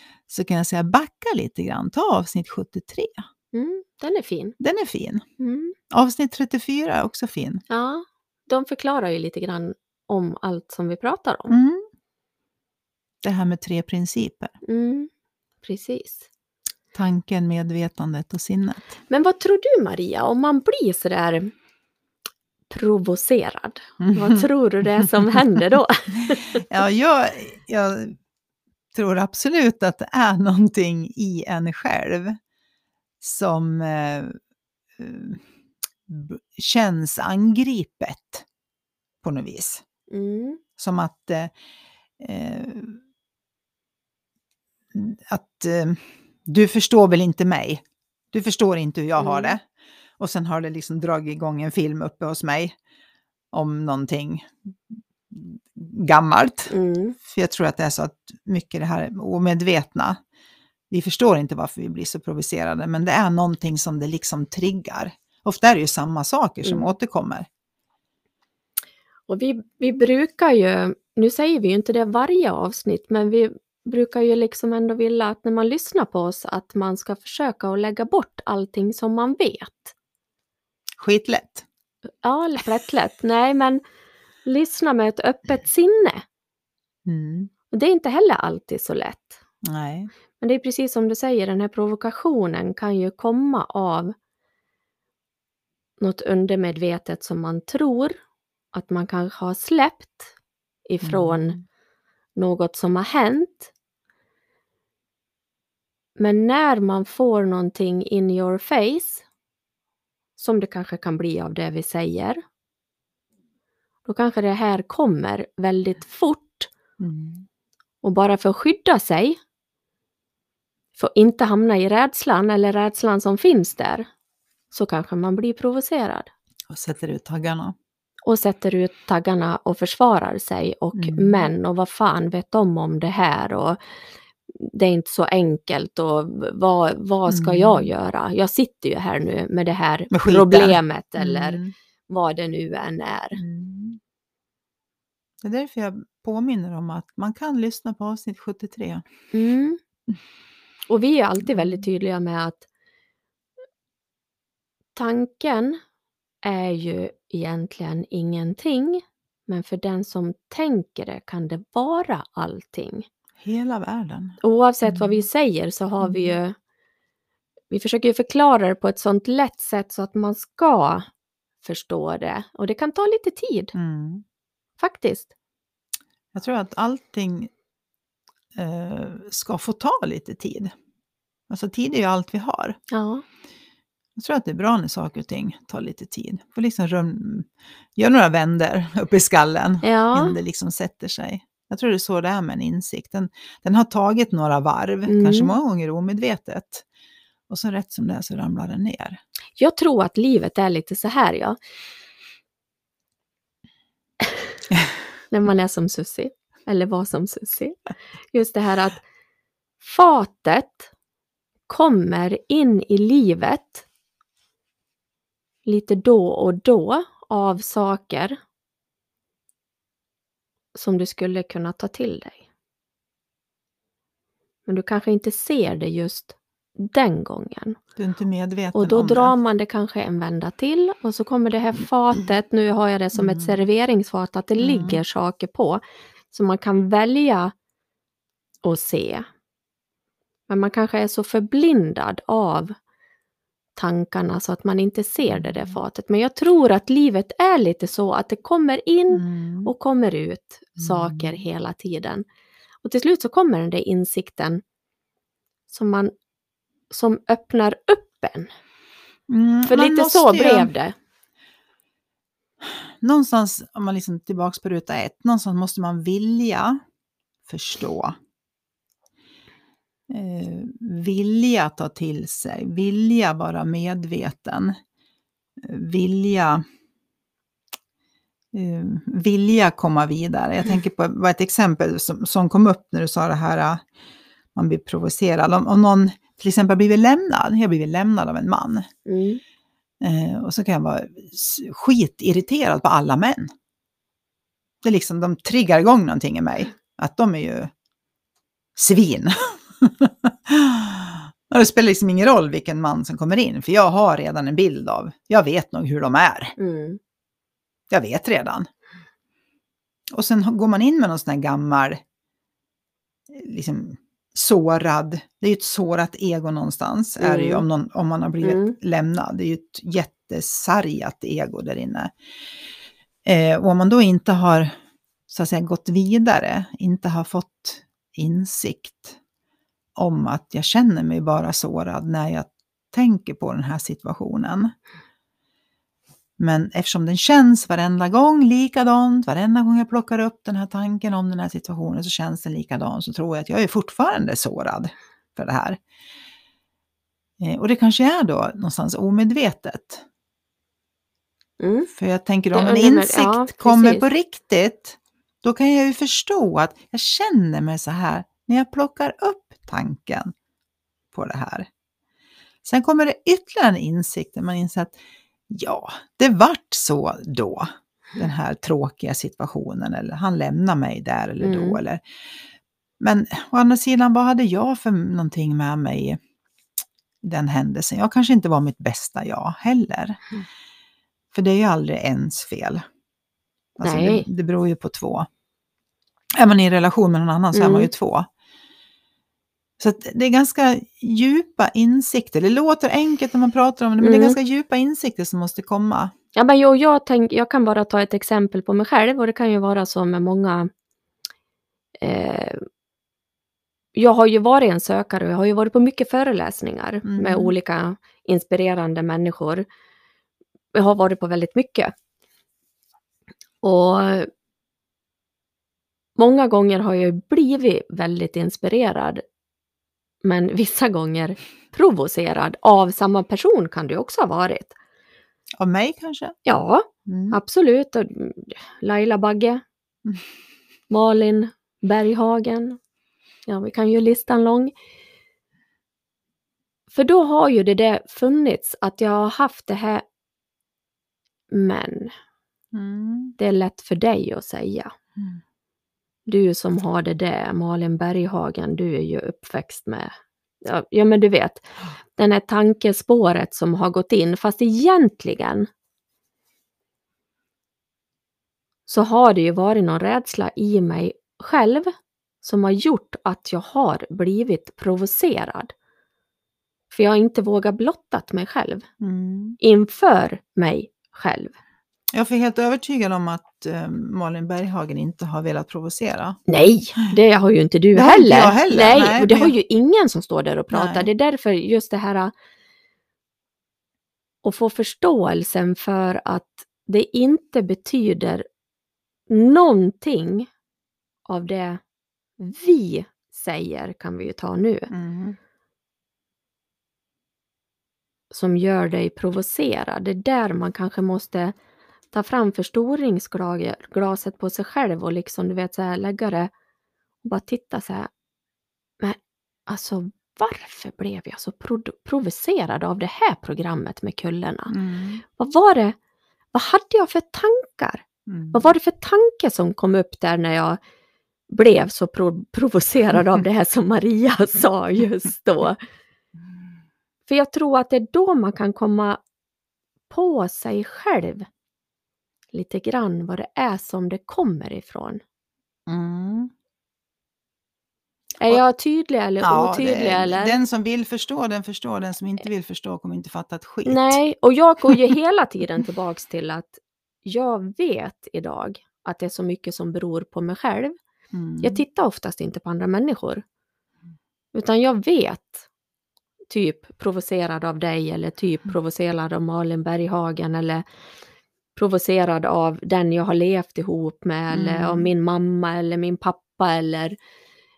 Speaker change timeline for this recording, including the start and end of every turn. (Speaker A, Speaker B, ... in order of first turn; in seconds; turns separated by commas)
Speaker A: 0.3-3.2, Speaker B: 3.5-4.6, Speaker A: 4.6-5.2, Speaker B: 5.4-5.8, Speaker A: 5.9-7.6, Speaker B: 7.7-11.6, Speaker A: 11.5-11.8, Speaker A: 13.2-14.5, Speaker B: 14.7-15.1, Speaker B: 15.6-16.2, Speaker A: 16.9-18.9, Speaker B: 19.1-21.5, Speaker B: 22.7-26.6, Speaker A: 24.0-24.5, Speaker A: 25.0-25.4, Speaker A: 26.3-28.2, Speaker A: 28.9-32.4, Speaker A: 33.2-34.4, Speaker A: 35.0-35.4, Speaker A: 36.1-38.5, Speaker A: 39.2-39.8, Speaker B: 40.1-40.6, Speaker A: 40.8-41.5, Speaker A: 42.2-43.0, Speaker A: 44.9-49.6, Speaker B: 49.2-49.5, Speaker A: 50.2-52.8, Speaker A: 53.5-54.8, Speaker A: 55.3-56.7, Speaker B: 56.7-57.2, Speaker A: 57.2-60.2, Speaker A: 60.9-67.5, Speaker B: 66.6-66.9, Speaker B: 69.3-79.9, Speaker A: 81.0-81.7, Speaker B: 82.2-83.8, Speaker B: 84.5-86.2, Speaker A: 87.1-87.5, Speaker B: 87.7-89.4, Speaker A: 89.6-90.1, Speaker B: 90.4-94.2, Speaker B: 96.0-98.2, Speaker B: 98.7-100.3, Speaker B: 100.9-101.6, Speaker A: 101.0-101.6, Speaker B: 102.4-103.7, Speaker B: 106.2-109.2, Speaker B: 110.4-112.4, Speaker B: 114.1-116.7, Speaker A: 117.0-117.5, Speaker B: 118.0-119.4, Speaker B: 121.0-124.1, Speaker B: 124.7-126.3, Speaker A: 126.7-127.8, Speaker B: 128.3-133.8, Speaker A: 130.9-131.5, Speaker B: 134.5-143.4, Speaker A: 137.3-137.9, Speaker A: 140.1-141.7, Speaker A: 143.4-144.0, Speaker A: 145.4-149.1, Speaker B: 149.3-149.8, Speaker B: 150.9-152.7, Speaker A: 151.4-151.8, Speaker B: 154.9-155.8, Speaker B: 156.4-163.1, Speaker A: 163.4-165.3, Speaker B: 164.4-166.6, Speaker A: 166.0-166.4, Speaker B: 167.7-171.1, Speaker B: 171.6-173.7, Speaker A: 173.7-174.2, Speaker B: 174.8-175.3, Speaker A: 176.3-177.5, Speaker A: 178.6-180.7, Speaker A: 181.5-182.8, Speaker B: 182.9-183.2, Speaker A: 184.2-196.8, Speaker B: 189.8-190.4, Speaker B: 195.1-195.5, Speaker A: 197.5-199.2, Speaker B: 199.6-201.6, Speaker B: 205.3-207.8, Speaker B: 208.3-209.0, Speaker B: 209.8-210.9, Speaker B: 211.7-213.8, Speaker B: 215.7-218.4, Speaker B: 220.8-222.4, Speaker B: 224.7-227.8, Speaker A: 228.0-229.3, Speaker B: 228.8-237.5, Speaker A: 233.2-233.6, Speaker A: 234.6-235.0, Speaker B: 238.7-239.3, Speaker B: 240.5-242.8, Speaker B: 243.8-252.2, Speaker A: 245.3-245.8, Speaker A: 249.1-249.7, Speaker A: 250.8-251.4, Speaker B: 252.8-254.6, Speaker B: 255.7-256.1, Speaker B: 256.9-258.5, Speaker A: 259.3-260.7, Speaker B: 259.7-260.9, Speaker A: 262.6-266.8, Speaker A: 267.5-268.1, Speaker A: 270.1-274.8, Speaker A: 275.6-276.6, Speaker A: 278.5-283.9, Speaker A: 284.6-288.9, Speaker B: 289.1-289.4, Speaker A: 290.0-293.5, Speaker A: 294.8-297.7, Speaker A: 298.8-306.5, Speaker B: 306.6-307.0, Speaker A: 307.9-308.7, Speaker A: 310.1-312.0, Speaker A: 313.3-322.1, Speaker B: 317.2-317.6, Speaker B: 318.4-318.8, Speaker A: 323.3-324.7, Speaker A: 325.3-329.2, Speaker A: 330.0-334.7, Speaker A: 336.4-345.8, Speaker A: 347.4-350.0, Speaker B: 351.6-351.9, Speaker A: 351.9-360.3, Speaker B: 352.5-354.1, Speaker A: 361.1-361.7, Speaker A: 362.6-365.0, Speaker A: 365.5-372.0, Speaker B: 371.4-371.8, Speaker A: 373.0-376.2, Speaker A: 377.2-380.2, Speaker A: 381.3-382.8, Speaker A: 383.8-385.3, Speaker B: 383.8-384.3, Speaker A: 386.4-388.3, Speaker B: 387.5-387.9, Speaker A: 389.8-396.1, Speaker B: 394.0-394.4, Speaker B: 396.4-400.7, Speaker B: 402.0-402.6, Speaker B: 403.9-409.7, Speaker A: 407.1-407.6, Speaker B: 410.7-411.9, Speaker B: 413.6-414.3, Speaker B: 416.2-419.2, Speaker B: 420.2-424.8, Speaker A: 425.6-426.4, Speaker B: 426.5-429.6, Speaker A: 427.1-427.4, Speaker B: 430.9-432.8, Speaker B: 433.5-434.7, Speaker B: 436.9-440.0, Speaker B: 441.5-442.1, Speaker A: 442.7-443.4, Speaker B: 443.4-444.9, Speaker B: 446.3-455.7, Speaker B: 458.9-465.7, Speaker B: 466.9-468.9, Speaker A: 469.0-469.6, Speaker B: 469.6-471.5, Speaker A: 472.1-476.4, Speaker B: 476.5-482.3, Speaker A: 477.9-479.5, Speaker A: 480.7-481.1, Speaker B: 484.4-488.4, Speaker B: 489.3-490.5, Speaker B: 491.3-491.8, Speaker B: 492.4-494.9, Speaker A: 494.9-495.4, Speaker B: 498.3-501.6, Speaker B: 502.1-506.5, Speaker B: 507.2-508.1, Speaker B: 509.0-514.7, Speaker A: 514.7-515.2, Speaker B: 515.3-516.0, Speaker B: 516.5-520.8, Speaker A: 518.3-518.7, Speaker B: 521.5-525.8, Speaker B: 527.3-529.2, Speaker B: 530.1-531.5, Speaker B: 532.5-535.2, Speaker A: 535.9-536.5, Speaker B: 538.4-540.6, Speaker A: 539.4-544.2, Speaker B: 543.9-551.0, Speaker A: 551.3-551.8, Speaker B: 551.6-553.4, Speaker B: 554.5-555.6, Speaker B: 556.5-560.8, Speaker B: 561.8-567.2, Speaker A: 564.5-565.1